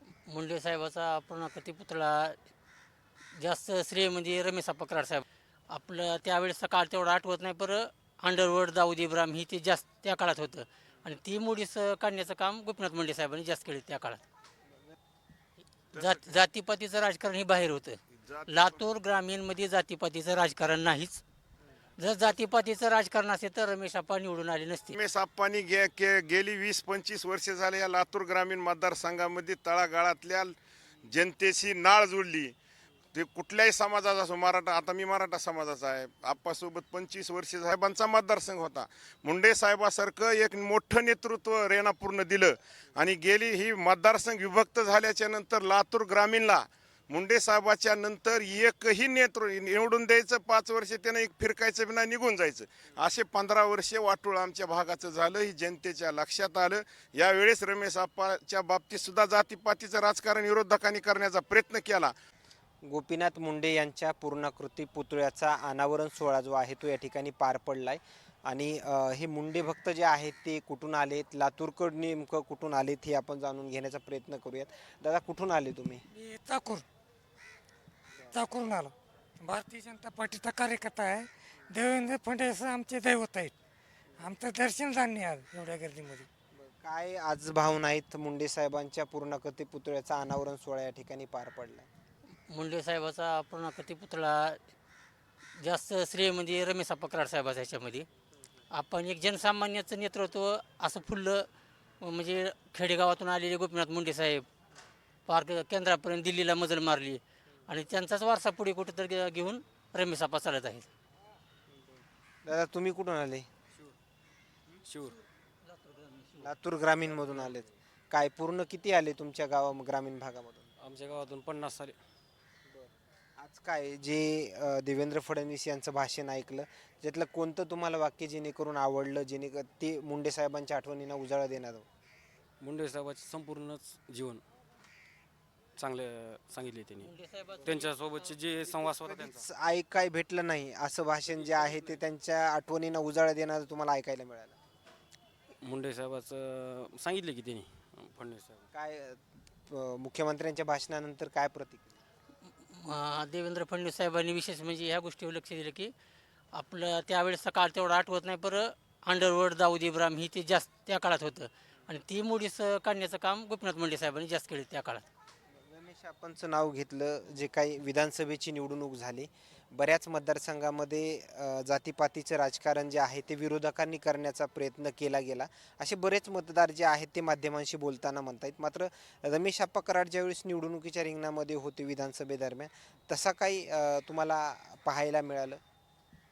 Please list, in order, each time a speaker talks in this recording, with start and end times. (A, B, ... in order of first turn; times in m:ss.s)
0:00.3-0:02.4 A
0:03.4-0:14.2 A
0:15.9-0:21.2 A
0:15.9-0:16.3 B
0:18.3-0:18.8 B
0:22.0-0:25.0 A
0:25.0-0:30.5 B
0:31.1-0:32.5 B
0:33.1-1:02.1 B
1:02.8-1:16.0 C
1:16.1-1:16.8 D
1:18.3-1:23.5 D
1:24.2-1:26.3 D
1:26.5-1:31.9 C
1:32.5-1:34.6 A
1:35.6-1:38.1 A
1:38.7-1:41.4 A
1:42.0-1:44.4 A
1:45.3-1:50.9 A
1:52.4-1:53.5 C
1:54.8-1:55.2 E
1:55.7-1:56.4 A
1:56.4-2:00.7 C
2:00.8-2:02.0 E
2:03.4-2:11.9 C
2:12.6-2:14.4 E
2:15.8-2:17.1 E
2:17.0-2:17.9 A
2:17.6-2:19.4 E
2:18.8-2:24.6 C
2:25.6-2:28.6 E
2:28.7-2:31.9 C
2:32.7-2:35.9 A
2:36.5-2:45.0 A
2:45.6-3:05.6 C